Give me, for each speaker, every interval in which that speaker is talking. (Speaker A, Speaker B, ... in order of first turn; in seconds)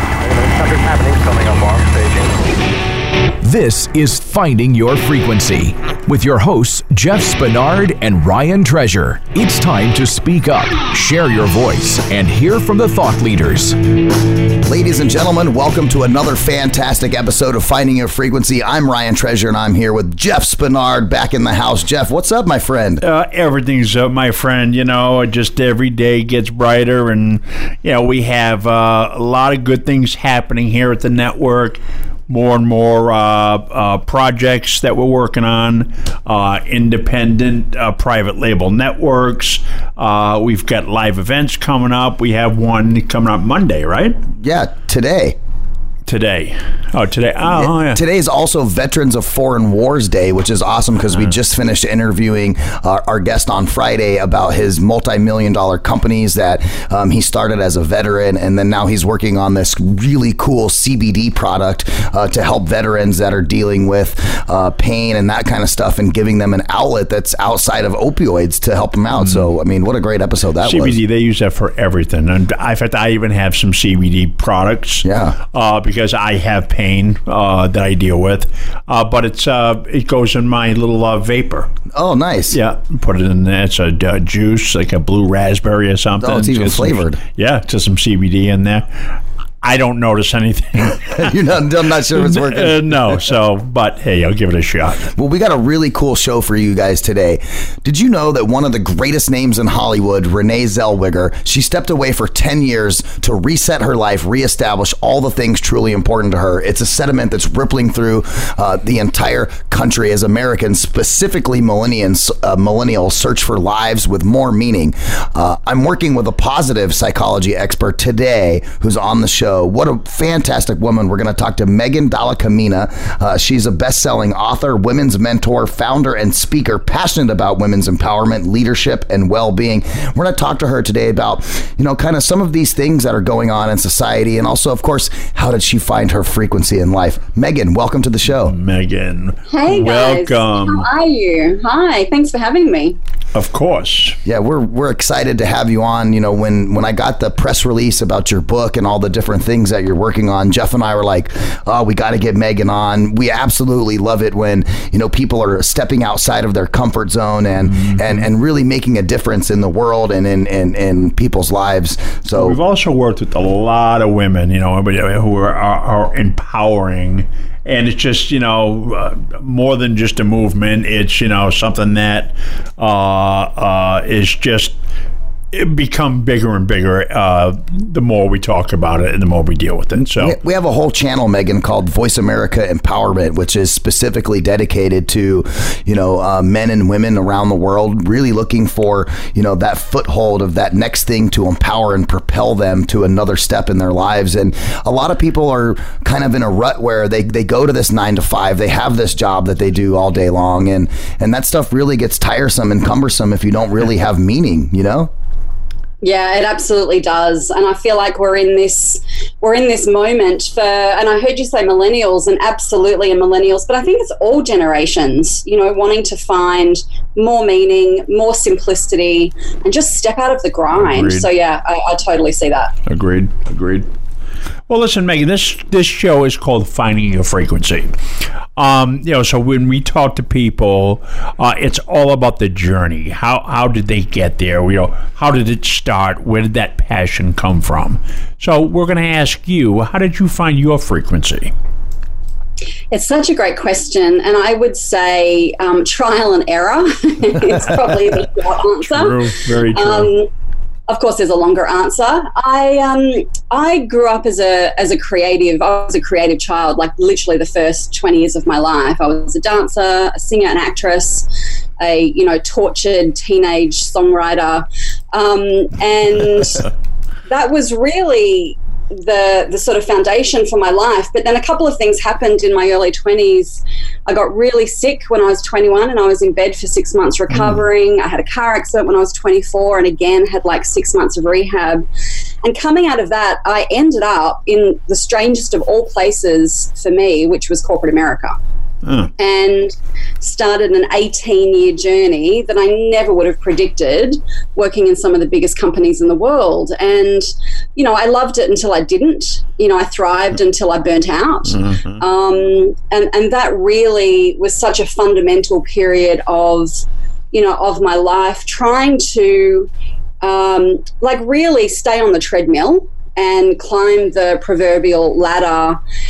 Speaker A: 0.2-2.4
Speaker B: 3.4-13.8
Speaker C: 14.6-23.0, 44.4-45.4, 47.5-71.0, 75.0-75.4, 81.9-82.6, 86.2-87.2, 91.2-92.9, 95.1-138.6, 144.2-162.6, 180.1-205.1
Speaker D: 23.0-44.2, 46.1-48.0, 69.2-69.4, 70.6-81.7, 82.5-88.9, 89.6-91.4, 92.1-95.1, 138.3-140.9, 143.3-144.2, 157.7-158.3, 162.3-174.8, 175.5-180.4, 220.7-221.3, 222.9-223.9, 224.7-227.9, 228.6-241.5, 247.6-248.1, 248.8-250.1, 277.3-277.6, 288.8-289.1, 301.5-302.0
Speaker E: 139.5-143.0, 206.0-222.7, 242.9-250.3, 250.9-261.3, 261.8-266.7, 267.3-281.8, 282.4-288.4, 289.2-309.7, 310.2-315.8